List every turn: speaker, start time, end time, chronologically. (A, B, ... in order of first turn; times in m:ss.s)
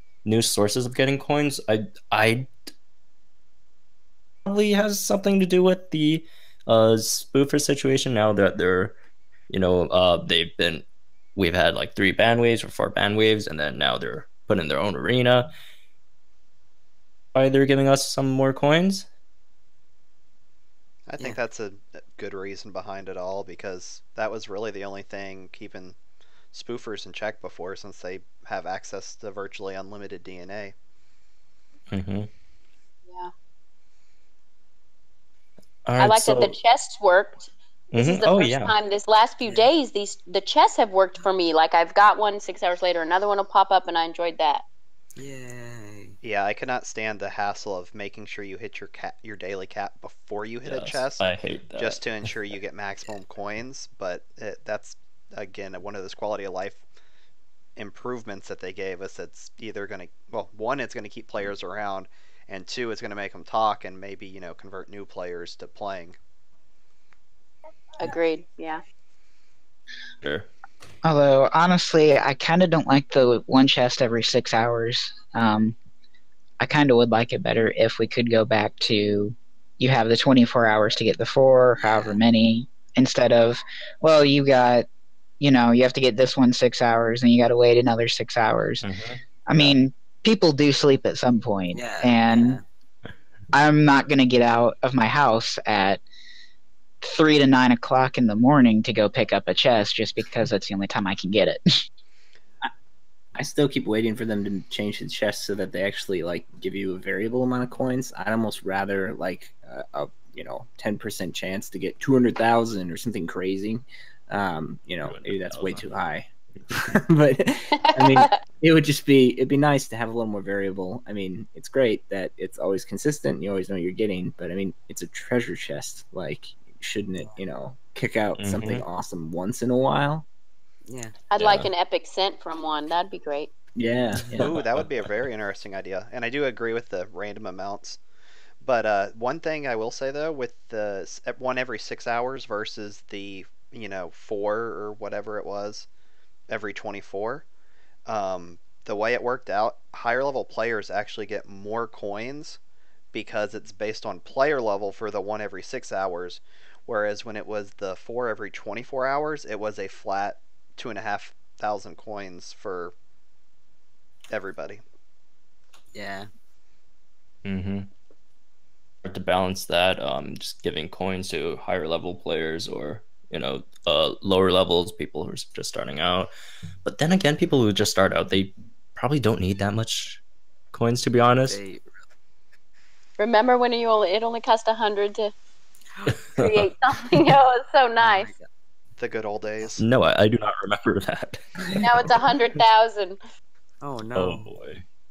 0:00.2-0:02.5 A
0:04.5-0:09.0 A
0:09.5-0:10.8 A
0:11.4-0:15.5 A
0:17.3-0:19.1 A
0:21.1-0:26.0 B
0:26.5-0:30.7 B
0:31.9-0:32.3 A
0:35.9-0:36.5 A
0:36.0-0:37.4 C
0:37.9-0:38.7 A
0:38.0-0:44.6 C
0:45.2-0:46.2 D
0:46.2-0:51.3 B
0:50.6-0:52.3 A
0:51.8-0:56.8 B
0:57.8-1:06.2 B
1:08.0-1:08.8 C
1:10.2-1:10.5 A
1:11.0-1:15.8 E
1:16.6-1:24.9 E
1:21.8-1:22.2 D
1:25.4-1:28.8 E
1:28.8-1:29.2 A
1:29.5-1:32.6 E
1:31.7-1:32.6 D
1:33.5-1:36.0 E
1:37.0-1:41.6 E
1:43.4-2:10.2 F
1:55.0-1:55.9 A
1:57.9-1:58.4 C
2:08.4-2:08.8 A
2:10.9-2:11.2 D
2:11.3-2:13.5 C
2:11.4-2:11.7 A
2:13.8-2:14.5 F
2:14.3-2:15.1 A
2:14.4-2:18.0 B
2:18.6-2:25.9 B
2:26.5-2:27.5 B
2:28.1-2:32.6 B
2:33.1-2:42.9 B
2:44.3-2:44.8 B
2:45.9-2:46.3 D
2:47.4-2:47.9 A
2:49.0-2:56.3 A
2:56.8-3:00.2 A
3:00.7-3:01.6 A
3:01.5-3:01.9 D
3:03.2-3:05.3 C
3:06.4-3:08.3 C
3:08.0-3:08.5 D
3:09.0-3:09.8 B
3:09.8-3:11.4 A
3:11.6-3:11.9 F
3:11.8-3:13.2 C
3:13.8-3:14.5 D
3:14.2-3:14.8 A